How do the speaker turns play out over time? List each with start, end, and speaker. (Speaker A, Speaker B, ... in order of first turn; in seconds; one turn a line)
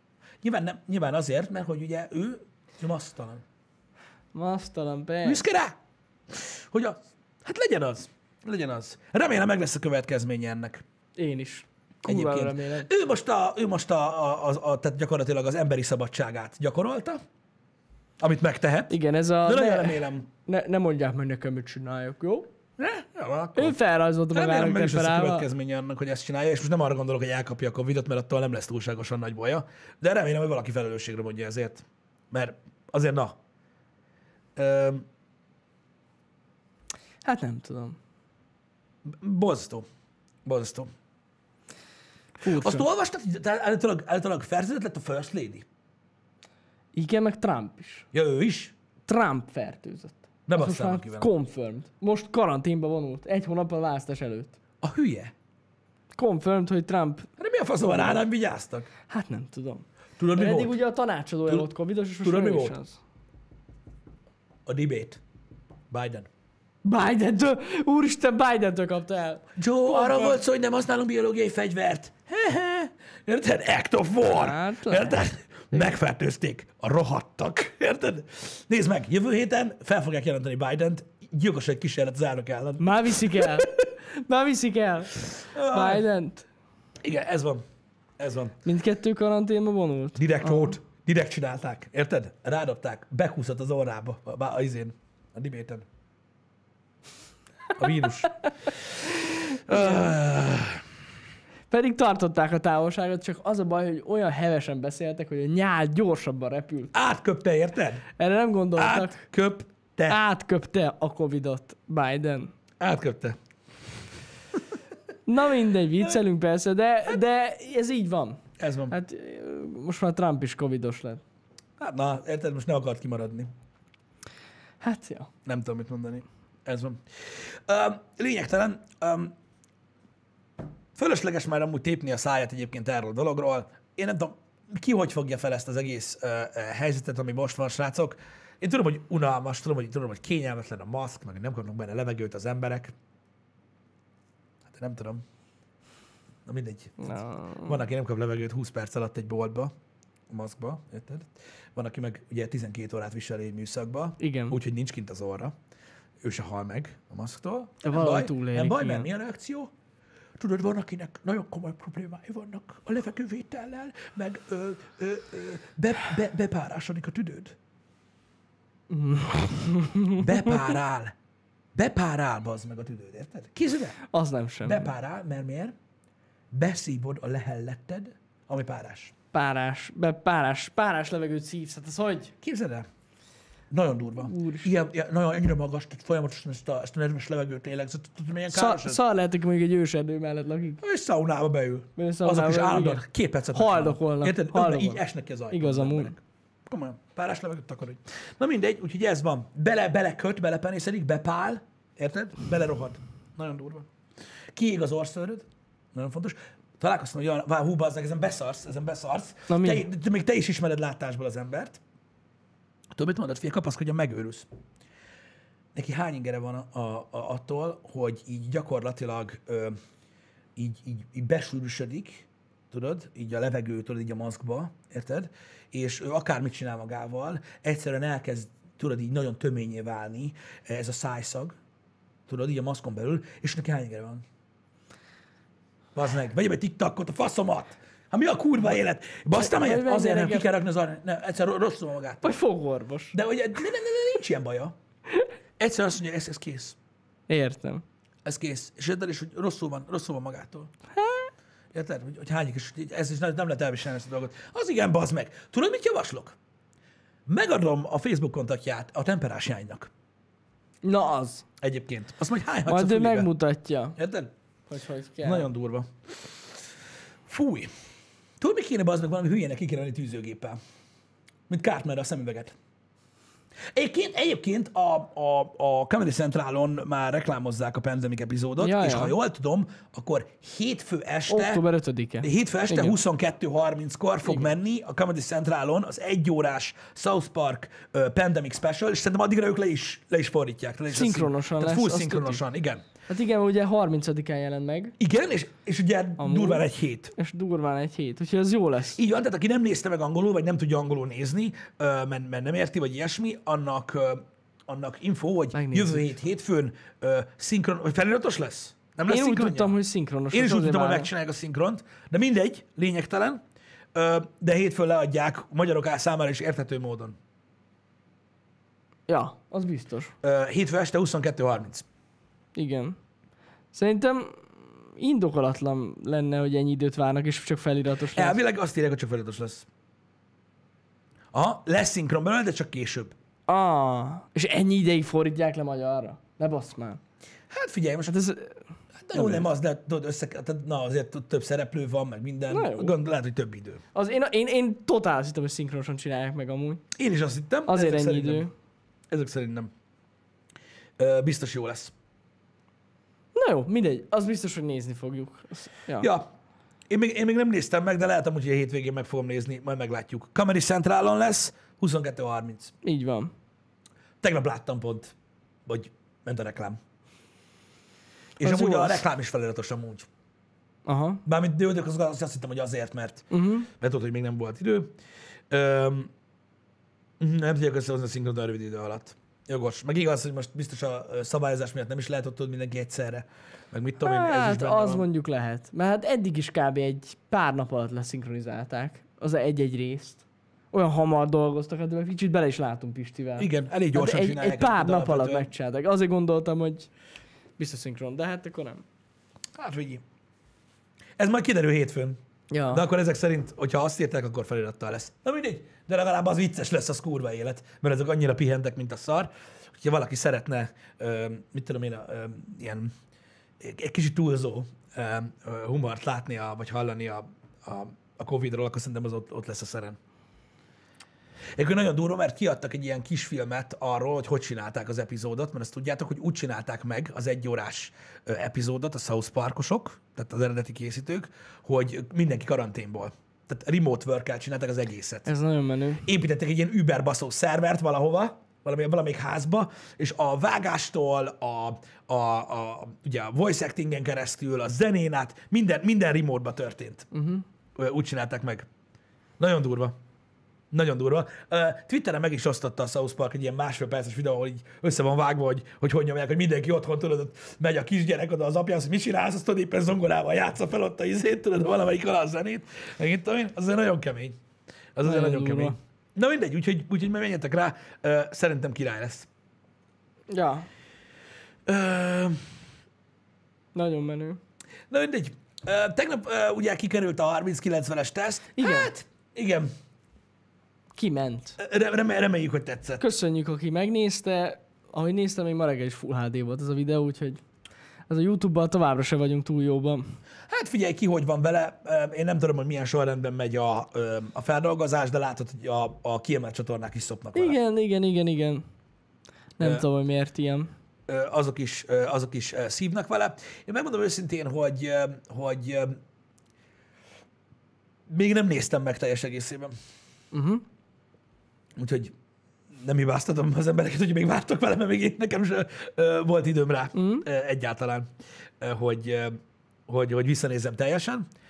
Speaker A: 0.4-3.4
Speaker B: 4.3-5.4
Speaker A: 5.2-5.8
Speaker A: 6.3-10.8
Speaker B: 11.2-12.9
Speaker A: 12.0-17.2
Speaker A: 18.2-20.2
Speaker B: 18.9-22.5
Speaker A: 22.8-23.8
Speaker B: 23.5-25.5
Speaker A: 24.3-33.4
Speaker A: 34.5-35.0
Speaker B: 37.2-38.0
Speaker A: 39.0-39.8
Speaker A: 40.4-40.9
Speaker B: 42.4-42.8
Speaker A: 42.5-45.6
Speaker B: 46.9-48.1
Speaker A: 48.1-48.7
Speaker B: 49.0-54.6
Speaker A: 50.5-51.3
Speaker A: 54.8-55.3
Speaker B: 56.1-57.3
Speaker A: 57.4-58.9
Speaker B: 57.8-58.2
Speaker B: 59.1-63.0
Speaker A: 60.2-60.8
Speaker A: 62.2-62.7
Speaker A: 64.7-65.2
Speaker A: 65.9-66.3
Speaker B: 66.8-70.4
Speaker A: 69.5-83.7
Speaker B: 74.2-75.2
Speaker B: 82.8-86.5
Speaker A: 85.5-86.0
Speaker A: 87.0-87.6
Speaker A: 88.2-88.6
Speaker B: 88.6-90.8
Speaker A: 90.2-95.8
Speaker A: 97.8-98.3
Speaker A: 99.4-100.8
Speaker B: 99.7-100.1
Speaker B: 101.7-106.9
Speaker A: 106.9-108.0
Speaker B: 108.2-109.2
Speaker A: 108.8-110.2
Speaker B: 110.1-112.5
Speaker A: 112.8-113.4
Speaker B: 115.3-121.2
Speaker A: 118.6-118.9
Speaker A: 121.8-123.5
Speaker B: 124.8-125.3
Speaker A: 125.4-127.0
Speaker A: 127.7-129.3
Speaker A: 130.9-142.9
Speaker A: 144.7-145.2
Speaker A: 146.4-149.7
Speaker B: 147.0-147.8
Speaker A: 150.3-155.5
Speaker B: 154.2-154.6
Speaker A: 156.2-159.7
Speaker B: 157.8-159.1
Speaker A: 160.4-167.5
Speaker B: 168.9-170.6
Speaker A: 170.2-171.1
Speaker A: 171.7-173.9
Speaker B: 174.1-174.9
Speaker A: 174.6-175.7
Speaker A: 176.5-179.1
Speaker B: 179.3-182.3
Speaker A: 182.4-182.8
Speaker A: 183.7-189.0
Speaker B: 184.2-184.7
Speaker B: 188.5-190.8
Speaker A: 190.8-203.9
Speaker B: 192.0-193.0
Speaker B: 193.5-196.1
Speaker A: 204.5-211.8
Speaker B: 209.5-209.8
Speaker A: 212.9-214.5
Speaker A: 215.7-219.8
Speaker A: 220.6-231.6
Speaker A: 232.3-234.2
Speaker A: 235.9-242.4
Speaker B: 239.4-240.5
Speaker B: 242.2-243.2
Speaker A: 243.1-244.7
Speaker A: 245.6-246.8
Speaker B: 247.3-247.8
Speaker A: 248.2-250.7
Speaker B: 250.9-251.3
Speaker A: 251.7-256.4
Speaker A: 257.3-259.9
Speaker B: 260.8-261.4
Speaker A: 261.6-263.3
Speaker B: 262.7-263.9
Speaker A: 263.9-264.3
Speaker B: 264.7-265.5
Speaker A: 265.2-265.9
Speaker A: 267.2-267.7
Speaker A: 268.4-270.6
Speaker A: 271.5-272.5
Speaker A: 273.7-281.6
Speaker B: 278.6-279.1
Speaker B: 281.3-283.0
Speaker A: 282.2-292.8
Speaker B: 290.9-292.4
Speaker B: 293.1-294.9
Speaker A: 295.0-297.1
Speaker B: 296.2-299.0
Speaker A: 298.9-309.8
Speaker B: 305.5-306.1
Speaker B: 309.1-311.1
Speaker A: 310.3-313.4
Speaker A: 313.9-317.2
Speaker B: 319.1-320.1
Speaker A: 320.2-321.9
Speaker B: 322.5-323.0
Speaker B: 323.7-328.4
Speaker A: 328.1-329.7
Speaker A: 331.3-333.1
Speaker B: 333.5-337.0
Speaker A: 337.5-338.1
Speaker B: 338.1-338.6
Speaker A: 339.0-343.8
Speaker B: 339.1-339.5
Speaker B: 342.5-342.9
Speaker B: 343.9-346.8
Speaker A: 346.9-348.5
Speaker B: 347.7-348.5
Speaker A: 349.1-349.7
Speaker A: 351.0-351.9
Speaker B: 353.3-356.1
Speaker A: 356.0-356.3
Speaker A: 356.9-362.7
Speaker B: 362.8-363.3
Speaker A: 364.2-365.1
Speaker A: 365.6-366.8
Speaker A: 368.4-370.1
Speaker B: 368.4-369.0
Speaker B: 370.9-371.2
Speaker A: 371.2-374.9
Speaker B: 373.3-373.7
Speaker A: 375.5-376.1
Speaker A: 377.2-385.1
Speaker B: 384.0-396.9
Speaker A: 393.4-395.5
Speaker B: 397.6-398.8
Speaker A: 399.6-400.0
Speaker A: 401.2-402.2
Speaker B: 402.5-402.8
Speaker A: 402.7-412.9
Speaker A: 413.6-420.0
Speaker A: 421.6-435.3
Speaker B: 435.2-436.1
Speaker A: 436.0-447.1
Speaker B: 447.1-447.4
Speaker A: 447.8-448.7
Speaker A: 449.4-450.0
Speaker A: 450.7-464.4
Speaker A: 464.9-469.3
Speaker B: 465.0-465.8
Speaker B: 470.3-470.7
Speaker A: 471.6-472.4
Speaker B: 473.7-474.4
Speaker A: 474.9-479.7
Speaker B: 478.6-478.9
Speaker B: 480.9-481.6
Speaker A: 481.6-483.0
Speaker B: 483.0-487.4
Speaker B: 488.1-490.1
Speaker A: 490.5-497.6
Speaker B: 497.3-498.6
Speaker B: 499.6-500.7
Speaker A: 501.1-506.0
Speaker A: 508.1-509.7
Speaker B: 510.3-510.6
Speaker A: 511.8-512.1
Speaker A: 512.7-518.1
Speaker B: 516.9-517.2
Speaker A: 518.6-521.2